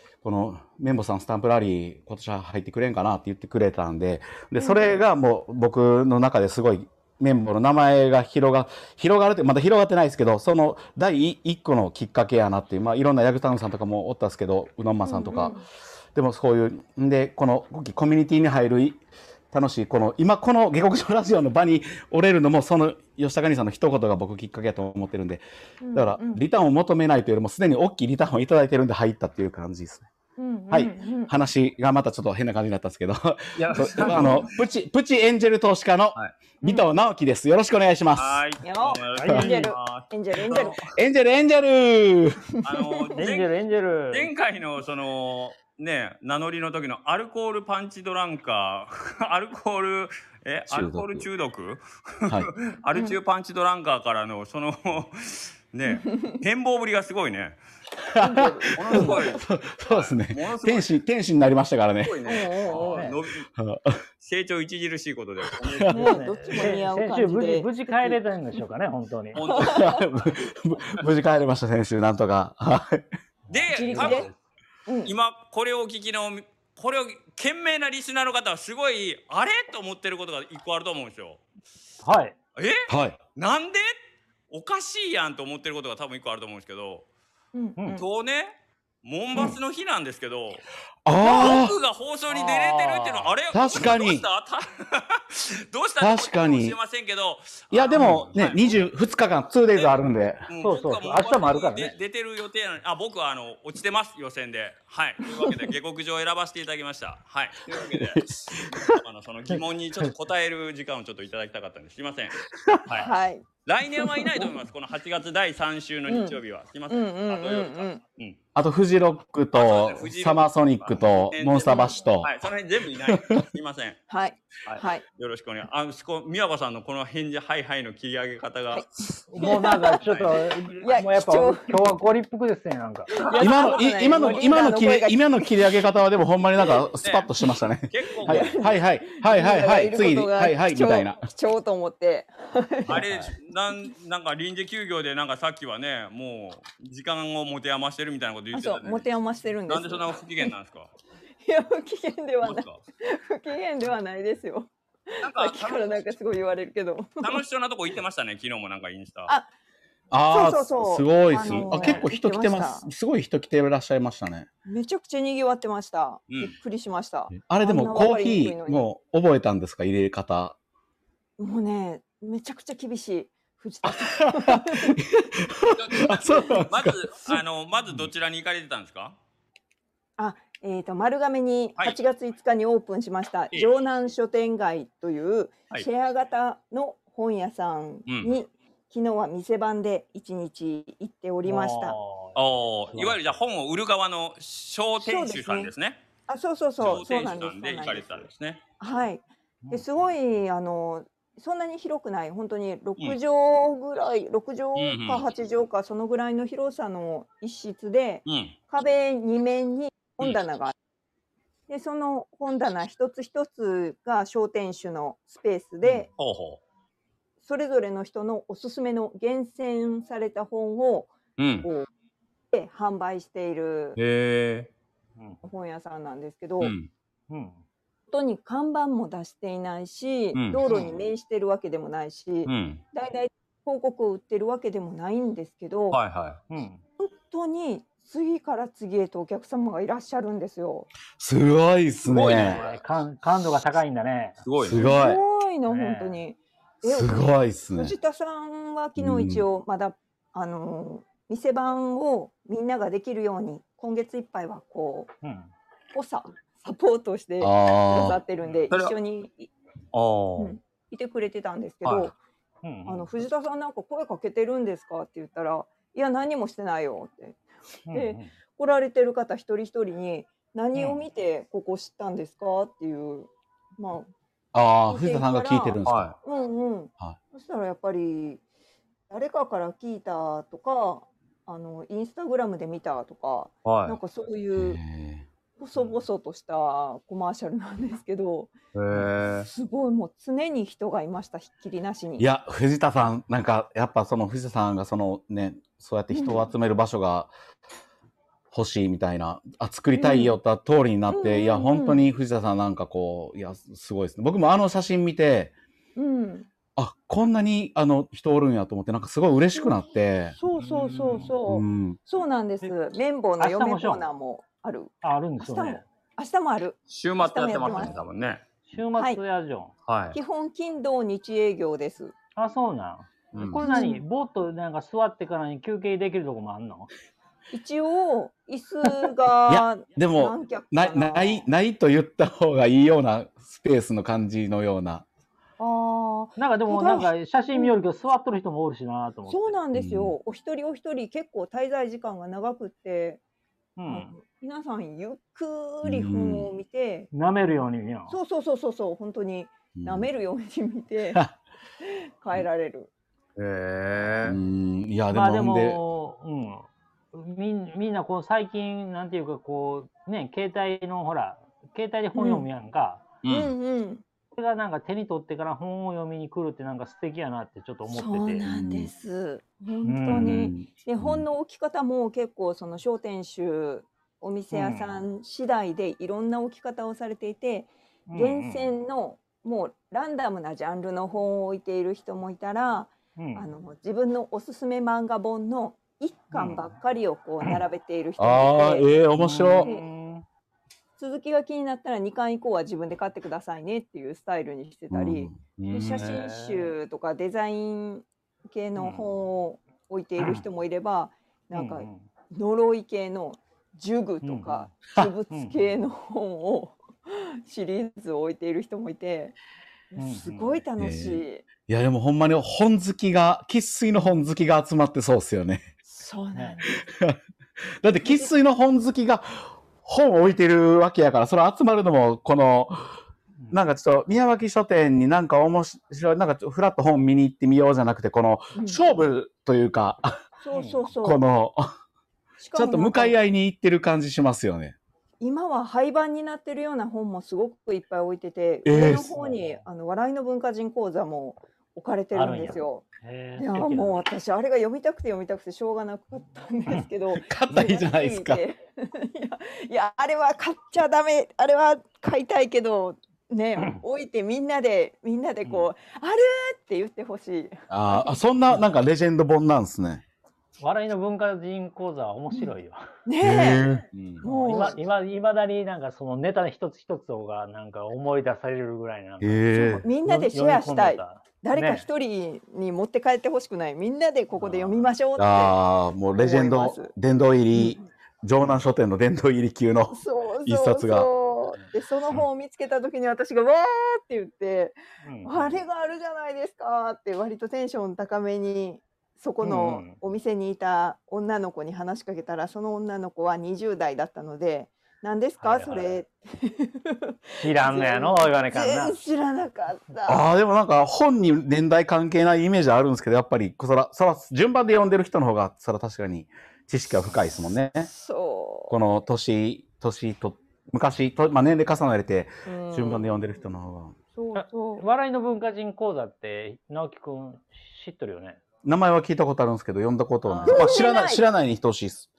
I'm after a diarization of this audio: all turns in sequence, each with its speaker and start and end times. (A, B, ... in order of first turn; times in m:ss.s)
0:00.2-0:15.6 A
0:04.6-0:05.0 B
0:15.0-0:15.6 B
0:16.1-0:19.0 A
0:19.5-0:25.4 A
0:25.8-0:26.4 B
0:25.9-0:30.0 A
0:30.4-0:31.4 B
0:30.7-0:38.4 A
0:33.6-0:34.5 C
0:34.0-0:34.5 B
0:36.6-0:36.9 B
0:38.2-0:40.8 C
0:38.6-0:40.9 B
0:39.2-0:39.6 D
0:40.9-0:42.4 A
0:42.6-0:43.5 C
0:42.6-0:43.3 B
0:43.2-0:44.3 D
0:44.1-0:57.6 C
0:50.7-0:51.3 A
0:52.9-0:53.2 B
0:55.8-0:56.3 B
0:58.0-1:02.3 A
0:58.2-0:59.4 B
0:58.7-1:00.9 C
1:02.0-1:03.5 C
1:02.2-1:03.1 B
1:02.7-1:03.2 D
1:03.6-1:04.0 A
1:04.2-1:06.7 C
1:05.5-1:06.0 A
1:05.9-1:08.2 B
1:06.0-1:09.4 D
1:09.3-1:10.3 C
1:09.5-1:10.0 B
1:09.5-1:13.0 A
1:13.5-1:14.4 D
1:13.5-1:14.3 C
1:13.7-1:14.3 B
1:14.9-1:15.1 B
1:15.0-1:21.4 C
1:22.0-1:22.4 D
1:22.6-1:23.9 C
1:22.9-1:23.2 A
1:24.5-1:27.0 C
1:27.5-1:28.0 B
1:27.8-1:28.0 D
1:27.9-1:30.6 C
1:31.0-1:31.8 A
1:31.2-1:38.8 C
1:31.2-1:31.6 B
1:32.3-1:33.3 D
1:33.5-1:34.2 A
1:36.0-1:36.8 A
1:37.7-1:40.4 A
1:37.9-1:38.3 D
1:40.5-1:53.1 C
1:40.6-1:41.9 D
1:47.9-1:49.0 A
1:49.5-1:50.1 A
1:52.6-1:52.8 A
1:53.0-1:53.4 B
1:53.6-1:58.4 C
1:54.0-1:54.5 B
1:56.1-1:56.4 B
1:56.9-1:58.0 B
1:58.5-2:02.3 A
1:59.5-2:04.0 C
2:01.7-2:02.0 B
2:03.1-2:03.4 A
2:04.1-2:05.0 B
2:04.6-2:08.9 C
2:08.7-2:10.0 B
2:09.3-2:13.1 D
2:10.0-2:10.5 C
2:10.8-2:11.9 B
2:13.2-2:14.5 C
2:13.2-2:15.6 B
2:13.4-2:21.2 A
2:17.0-2:17.3 C
2:17.9-2:18.7 C
2:18.2-2:23.0 B
2:22.8-2:29.1 C
2:22.9-2:23.3 D
2:28.5-2:30.5 B
2:29.7-2:30.9 C
2:31.4-2:37.4 B
2:32.4-2:32.8 C
2:35.2-2:36.1 C
2:37.2-2:39.3 C
2:40.1-2:44.5 A
2:40.3-2:42.8 B
2:41.4-2:42.1 C
2:44.6-2:48.8 B
2:46.3-2:46.6 C
2:47.3-2:50.6 A
2:51.4-2:55.0 B
2:53.8-2:57.4 A
2:55.7-2:59.2 C
3:00.2-3:12.0 B
3:08.1-3:08.3 C
3:11.4-3:13.2 D
3:12.3-3:16.0 C
3:15.0-3:15.7 B
3:16.3-3:18.3 B
3:16.8-3:18.6 C
3:18.8-3:30.7 B
3:19.6-3:19.9 D
3:24.8-3:25.2 C
3:28.2-3:28.6 C
3:31.7-3:36.1 B
3:36.2-3:36.6 C
3:37.4-3:41.9 B
3:41.4-3:41.7 C
3:42.5-3:44.0 B
3:44.0-3:44.7 C
3:45.2-3:45.4 D
3:45.4-3:46.7 B
3:46.6-3:46.9 C
3:47.3-3:47.6 D
3:48.1-3:56.0 B
3:50.3-3:51.0 C
3:52.4-3:52.8 C
3:55.9-3:56.4 C
3:56.5-3:56.8 D
3:57.0-4:00.9 B
4:01.2-4:02.6 A
4:02.1-4:02.8 C
4:02.1-4:04.4 D
4:04.4-4:04.9 C
4:04.6-4:05.2 A
4:04.7-4:15.1 B
4:05.7-4:06.2 D
4:06.8-4:07.9 A
4:09.0-4:09.4 A
4:15.2-4:15.5 D
4:15.9-4:19.5 B
4:17.4-4:18.2 A
4:19.9-4:20.6 C
4:20.4-4:22.1 B
4:21.8-4:22.1 C
4:22.6-4:23.1 D
4:22.9-4:27.4 B
4:27.9-4:28.3 D
4:27.9-4:34.1 B
4:30.7-4:31.0 D
4:34.5-4:36.1 A
4:34.9-4:38.4 B
4:35.8-4:36.2 C
4:39.1-4:44.8 B
4:43.6-4:44.0 C
4:44.6-4:45.2 A
4:45.6-4:48.5 B
4:48.7-4:49.5 C
4:49.4-4:52.3 B
4:52.2-4:57.3 A
4:56.1-4:56.4 B
4:58.5-5:05.5 A
4:59.9-5:00.4 B
5:01.1-5:02.1 B
5:06.0-5:06.5 B
5:06.8-5:10.4 A
5:10.4-5:18.0 B
5:10.6-5:11.3 C
5:10.8-5:11.2 D
5:11.4-5:12.0 A
5:13.4-5:14.0 D
5:15.0-5:15.8 D
5:16.9-5:18.4 C
5:18.7-5:19.7 D
5:19.0-5:19.2 B
5:19.8-5:20.2 C
5:20.1-5:22.1 B
5:22.4-5:26.9 D
5:23.3-5:23.6 C
5:23.6-5:24.0 B
5:27.5-5:31.4 B
5:29.5-5:35.0 A
5:35.6-5:37.7 B
5:36.4-5:39.6 D
5:39.3-5:43.2 B
5:39.7-5:40.1 A
5:43.8-5:44.1 D
5:43.9-5:47.1 B
5:45.8-5:46.5 A
5:47.1-5:48.2 D
5:48.1-5:51.2 B
5:49.8-5:50.1 A
5:51.8-5:52.9 B
5:53.4-5:54.4 C
5:54.2-5:55.8 A
5:55.1-6:03.0 D
6:02.2-6:02.5 B
6:03.2-6:03.5 C
6:03.3-6:04.0 B
6:04.3-6:08.4 D
6:07.9-6:28.9 B
6:08.4-6:08.9 A
6:09.8-6:10.5 D
6:10.1-6:11.2 A
6:14.5-6:15.0 D
6:18.1-6:18.7 D
6:23.2-6:23.4 D
6:28.2-6:29.7 A
6:29.1-6:30.2 D
6:29.6-6:29.8 B
6:31.0-6:49.4 B
6:34.9-6:36.1 A
6:35.6-6:36.1 C
6:35.9-6:36.7 D
6:38.8-6:39.1 D
6:41.5-6:42.1 D
6:44.2-6:44.7 D
6:45.3-6:45.6 D
6:49.9-6:51.4 B
6:50.0-6:50.6 D
6:50.8-6:55.6 A
6:55.9-6:56.8 B
6:56.8-6:57.2 A
6:57.8-7:02.9 A
6:58.0-6:58.3 B
7:03.5-7:10.1 A
7:08.6-7:08.8 B
7:10.4-7:11.2 B
7:10.5-7:10.8 D
7:11.0-7:11.7 A
7:12.4-7:13.2 B
7:12.5-7:14.8 A
7:15.2-7:38.2 B
7:18.6-7:19.1 A
7:18.9-7:19.6 D
7:22.1-7:24.0 D
7:27.1-7:28.4 A
7:35.4-7:35.7 D
7:37.7-7:40.0 A
7:40.6-7:42.8 D
7:43.0-7:43.7 B
7:43.2-7:43.9 A
7:43.9-7:44.2 C
7:44.2-7:44.8 B
7:44.2-7:51.9 D
7:49.2-7:49.8 A
7:49.6-7:55.6 B
7:54.4-7:54.9 D
7:55.2-8:01.1 A
7:56.2-7:56.9 B
7:57.5-7:57.8 B
7:59.9-8:20.2 B
8:05.0-8:05.6 D
8:09.4-8:10.0 D
8:15.4-8:16.0 D
8:17.4-8:19.0 D
8:20.0-8:27.9 A
8:27.9-8:28.8 B
8:28.7-8:33.9 A
8:32.4-8:33.3 B
8:34.1-8:34.8 B
8:34.3-8:38.4 D
8:38.6-8:42.1 A
8:40.2-8:40.7 D
8:40.4-8:41.2 B